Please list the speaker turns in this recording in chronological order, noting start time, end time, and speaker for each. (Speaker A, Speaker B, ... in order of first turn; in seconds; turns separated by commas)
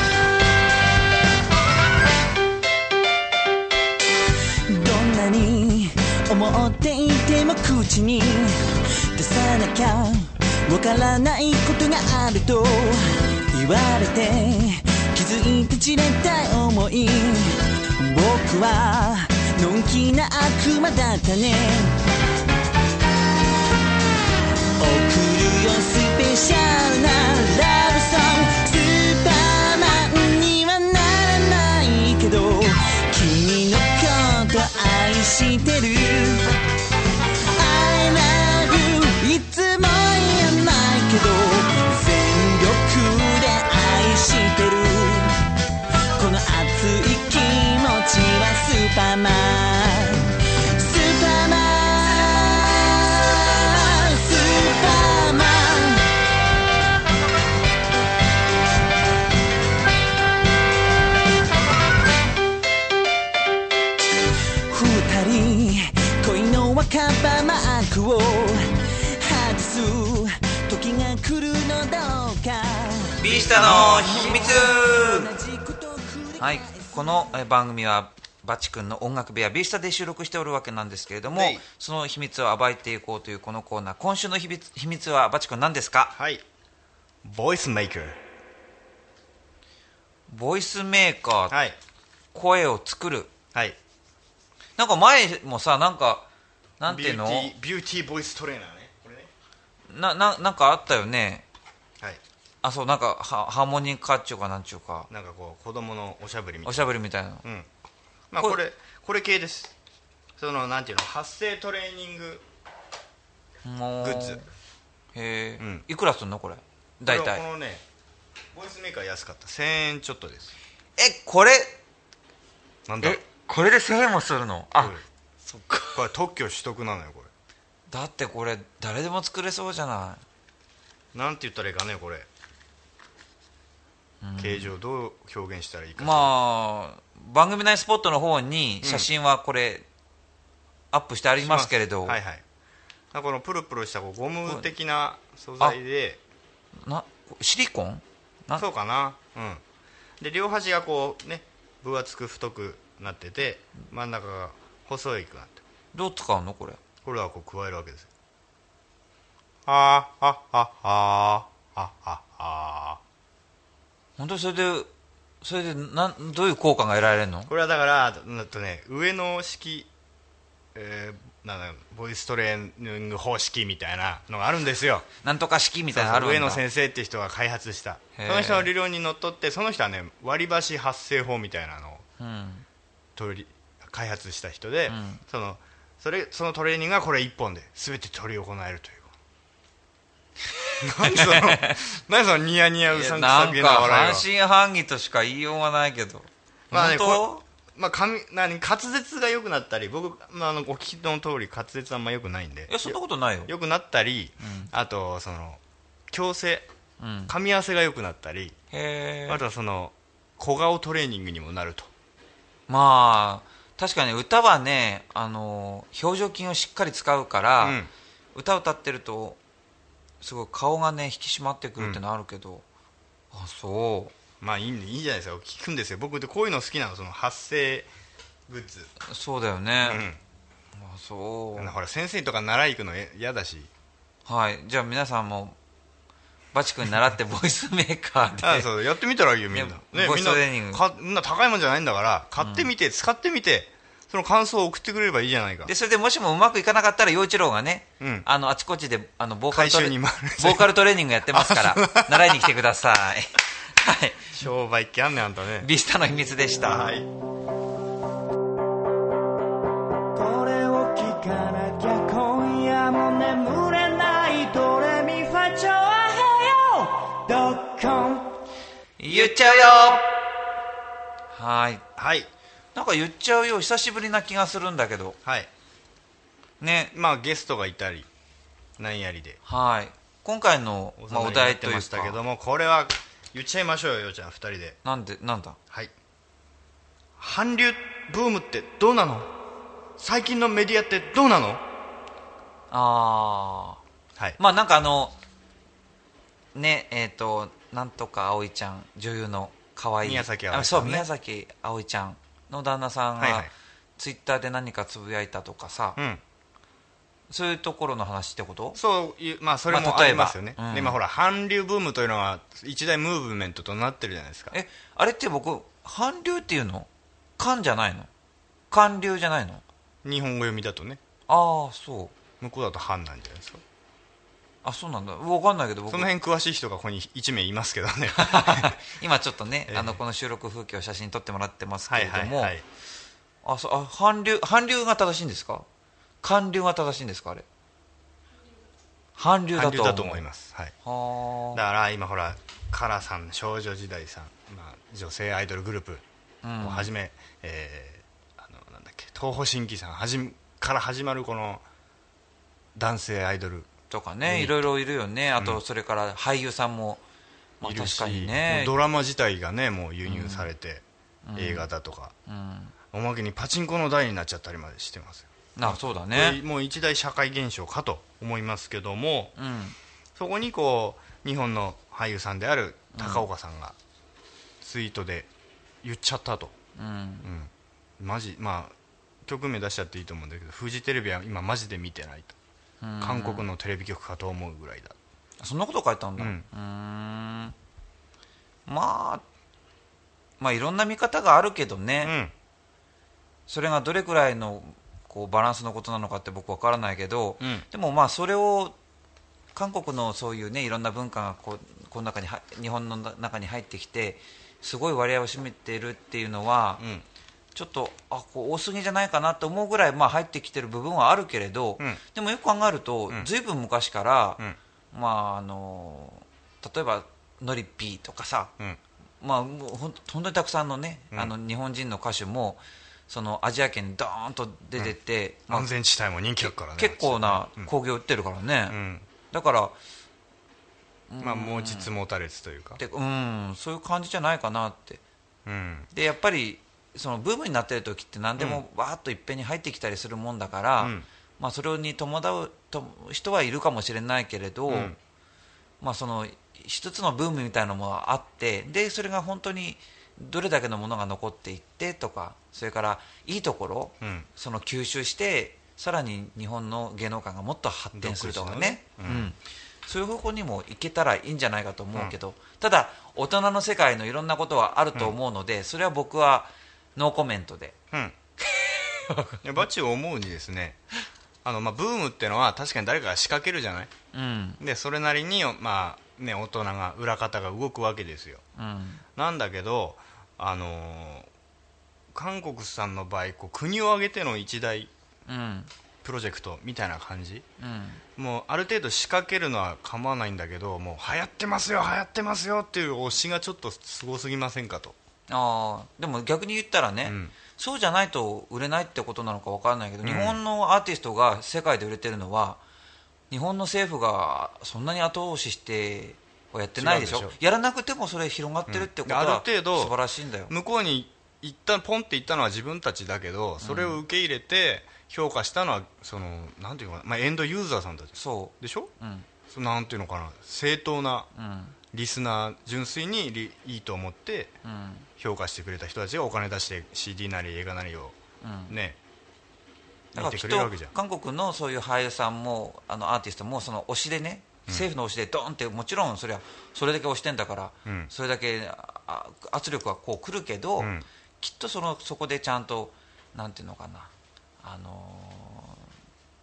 Speaker A: 4.7-22.0, Speaker A: 24.8-36.5, Speaker A: 37.5-45.4, Speaker A: 46.1-56.1, Speaker A: 64.7-77.2, Speaker B: 73.2-75.3, Speaker C: 73.6-74.3, Speaker B: 76.4-86.1, Speaker C: 81.3-81.6, Speaker C: 86.1-86.4, Speaker C: 87.2-88.2, Speaker B: 90.3-91.5, Speaker C: 91.5-91.8, Speaker B: 92.3-93.3, Speaker B: 94.8-96.3, Speaker B: 96.8-97.5, Speaker C: 96.8-99.3, Speaker B: 99.9-101.4, Speaker B: 102.6-105.1, Speaker C: 105.1-106.9, Speaker B: 106.6-107.4, Speaker C: 107.4-107.7, Speaker C: 108.3-109.8, Speaker C: 110.4-112.4, Speaker B: 113.6-114.5, Speaker C: 114.0-114.4, Speaker B: 115.1-117.4, Speaker C: 115.6-115.8, Speaker C: 117.0-117.8, Speaker C: 118.5-120.5, Speaker B: 121.0-121.8, Speaker C: 122.8-123.2, Speaker B: 123.0-126.0, Speaker C: 124.8-125.0, Speaker C: 125.9-127.3, Speaker B: 127.9-130.2, Speaker C: 131.1-132.3, Speaker B: 134.2-134.7, Speaker C: 134.4-136.3, Speaker B: 136.0-139.8, Speaker C: 138.8-139.1, Speaker B: 140.9-142.2, Speaker C: 141.4-142.4, Speaker C: 143.1-146.2, Speaker B: 146.8-148.6, Speaker C: 148.6-149.6, Speaker C: 150.2-155.6, Speaker B: 155.9-156.8, Speaker C: 157.0-158.1, Speaker C: 159.7-163.0, Speaker B: 164.2-164.9, Speaker B: 165.4-167.5, Speaker C: 167.5-169.9, Speaker C: 170.7-175.1, Speaker B: 175.2-176.6, Speaker C: 175.9-182.0, Speaker B: 178.1-178.7, Speaker B: 182.2-182.6, Speaker C: 183.2-189.1, Speaker B: 184.9-185.2, Speaker B: 190.6-191.8, Speaker C: 190.8-194.2, Speaker B: 192.9-197.4, Speaker C: 196.7-205.6, Speaker B: 202.7-203.5, Speaker B: 204.4-204.7, Speaker C: 206.1-206.7, Speaker B: 207.0-207.3, Speaker C: 207.3-208.5, Speaker B: 208.7-209.4, Speaker C: 209.3-211.9, Speaker B: 212.7-217.8, Speaker C: 217.6-217.9, Speaker B: 218.3-219.4, Speaker B: 220.2-222.6, Speaker B: 223.3-224.1, Speaker C: 224.4-227.9, Speaker C: 228.5-228.9, Speaker B: 229.0-230.0, Speaker C: 229.8-230.2, Speaker B: 230.8-231.8, Speaker C: 231.6-233.7, Speaker B: 234.2-235.6, Speaker B: 236.5-238.7, Speaker C: 238.4-245.7, Speaker B: 239.5-240.8, Speaker B: 242.4-242.7, Speaker B: 245.6-254.3, Speaker C: 248.0-248.2, Speaker C: 249.5-250.7, Speaker C: 251.3-252.4, Speaker C: 254.3-255.7, Speaker B: 255.6-257.0, Speaker C: 256.6-257.1, Speaker A: 260.1-268.3, Speaker B: 269.0-270.1, Speaker B: 271.3-271.8, Speaker C: 271.9-272.3, Speaker B: 272.8-275.2, Speaker B: 276.6-276.9, Speaker C: 276.9-278.1, Speaker C: 278.8-279.4, Speaker B: 279.4-282.2, Speaker C: 281.0-284.8, Speaker B: 284.8-285.6, Speaker C: 287.2-289.3, Speaker C: 290.0-291.6, Speaker B: 292.7-293.8, Speaker B: 294.4-295.1, Speaker B: 296.5-306.0, Speaker C: 300.0-301.1, Speaker C: 303.2-303.5, Speaker C: 306.0-306.2, Speaker B: 307.3-308.8, Speaker C: 308.8-314.5, Speaker B: 309.7-311.0, Speaker B: 314.5-318.1, Speaker B: 318.7-319.6, Speaker C: 320.0-321.0, Speaker B: 321.3-322.1, Speaker C: 322.4-323.6, Speaker B: 324.6-326.1, Speaker C: 325.9-328.8, Speaker B: 328.1-332.5, Speaker C: 329.7-330.0, Speaker C: 331.9-332.6, Speaker B: 333.4-335.6, Speaker B: 336.2-337.4, Speaker B: 339.1-340.2, Speaker C: 339.5-340.7, Speaker B: 340.8-341.6, Speaker C: 341.5-346.0, Speaker B: 346.4-346.9, Speaker C: 346.6-351.6, Speaker C: 352.8-353.7, Speaker B: 353.9-357.0, Speaker C: 354.2-354.6, Speaker B: 357.6-358.7, Speaker C: 357.6-360.8, Speaker B: 360.1-360.5, Speaker B: 361.2-361.7, Speaker C: 361.4-362.1, Speaker B: 362.3-362.7, Speaker C: 362.9-369.3, Speaker B: 365.6-366.4, Speaker B: 369.4-369.8, Speaker C: 370.1-373.8, Speaker B: 372.9-373.2, Speaker C: 374.6-375.3, Speaker C: 375.8-376.5, Speaker B: 376.8-377.3, Speaker C: 377.2-382.3, Speaker B: 382.8-383.4, Speaker C: 383.0-384.9, Speaker B: 385.4-387.5, Speaker C: 386.2-386.5, Speaker B: 388.7-389.2, Speaker B: 390.4-392.1, Speaker C: 392.0-392.3, Speaker B: 393.5-398.8, Speaker C: 397.4-397.6, Speaker B: 399.5-406.8, Speaker C: 406.8-407.0, Speaker B: 407.5-414.4, Speaker B: 414.9-418.5, Speaker B: 419.2-425.7, Speaker C: 425.5-427.7, Speaker B: 426.4-428.8, Speaker C: 428.7-429.1, Speaker B: 429.3-429.8, Speaker B: 431.1-431.9, Speaker C: 431.2-432.8, Speaker B: 432.8-435.0, Speaker C: 435.4-435.9, Speaker B: 435.9-444.9, Speaker C: 438.4-438.6, Speaker C: 440.8-441.1, Speaker C: 444.7-445.0, Speaker B: 445.8-467.8, Speaker C: 454.0-454.3, Speaker C: 457.9-459.3, Speaker B: 468.5-469.4, Speaker C: 469.4-470.8, Speaker C: 471.4-473.9, Speaker B: 474.1-474.6, Speaker C: 474.6-478.4, Speaker B: 478.6-479.0, Speaker C: 479.1-481.3, Speaker C: 482.1-484.9, Speaker B: 485.3-485.7, Speaker C: 486.0-487.4, Speaker B: 487.6-488.0, Speaker C: 488.1-495.0, Speaker B: 495.3-502.6, Speaker C: 497.0-497.3, Speaker C: 500.0-500.4, Speaker B: 503.3-510.5, Speaker C: 506.8-507.3, Speaker C: 508.7-509.9, Speaker C: 510.5-518.9, Speaker B: 513.6-514.0, Speaker B: 518.1-519.3, Speaker C: 519.5-521.3, Speaker B: 521.3-521.8, Speaker C: 521.9-524.6, Speaker B: 524.6-525.1, Speaker C: 525.2-528.1, Speaker B: 528.4-528.8, Speaker C: 528.7-529.0, Speaker C: 530.1-530.9, Speaker B: 530.1-544.1, Speaker C: 537.9-538.1, Speaker B: 544.6-545.9